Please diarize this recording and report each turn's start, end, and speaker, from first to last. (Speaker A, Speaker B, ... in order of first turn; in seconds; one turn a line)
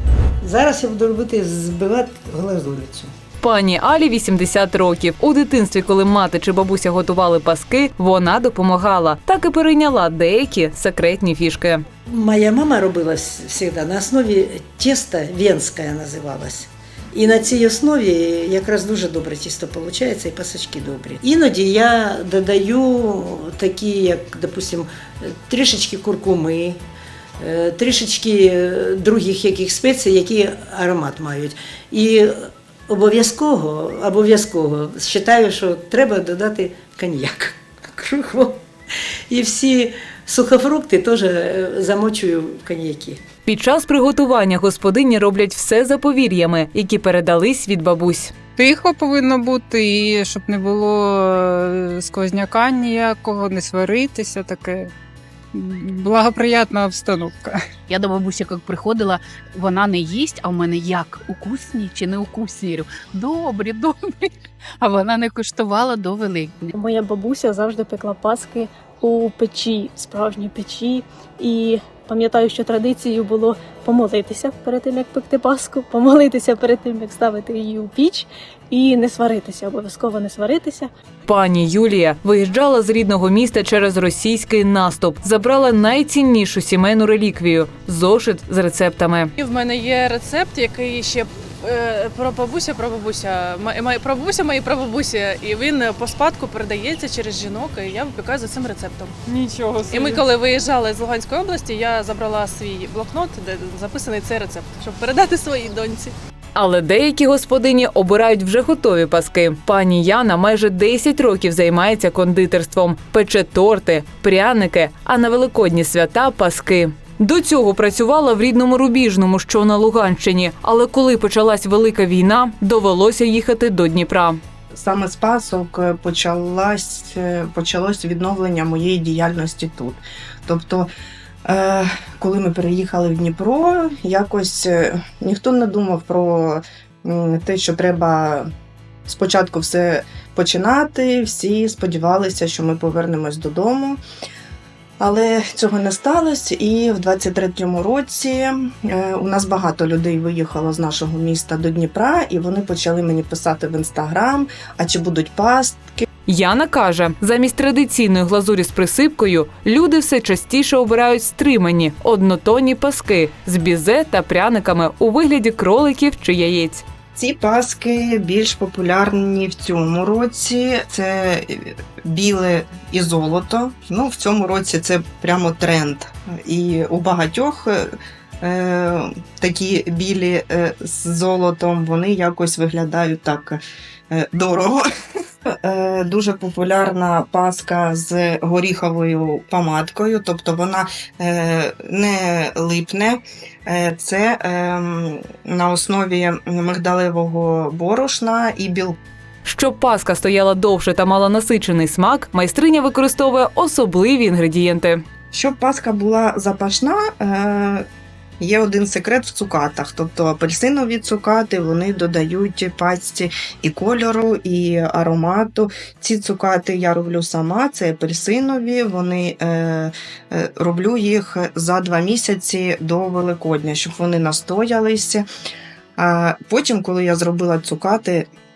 Speaker A: 0.4-3.1
Speaker B: 3.4-11.8
Speaker A: 12.1-26.8
Speaker A: 27.4-38.6
Speaker A: 39.3-43.2
Speaker B: 43.5-48.3
Speaker C: 48.6-54.9
Speaker C: 55.5-57.6
Speaker D: 57.9-66.7
Speaker E: 66.8-80.9
Speaker B: 81.3-89.3
Speaker F: 89.4-99.2
Speaker F: 99.9-106.1
Speaker B: 106.5-124.4
Speaker G: 124.8-130.9
Speaker G: 131.5-138.5
Speaker G: 139.1-144.0
Speaker G: 145.0-156.1
Speaker B: 156.3-166.8
Speaker G: 167.2-184.8
Speaker G: 185.6-199.0
Speaker B: 199.4-205.0
Speaker G: 205.3-207.9
Speaker G: 208.4-225.3
Speaker G: 226.0-228.3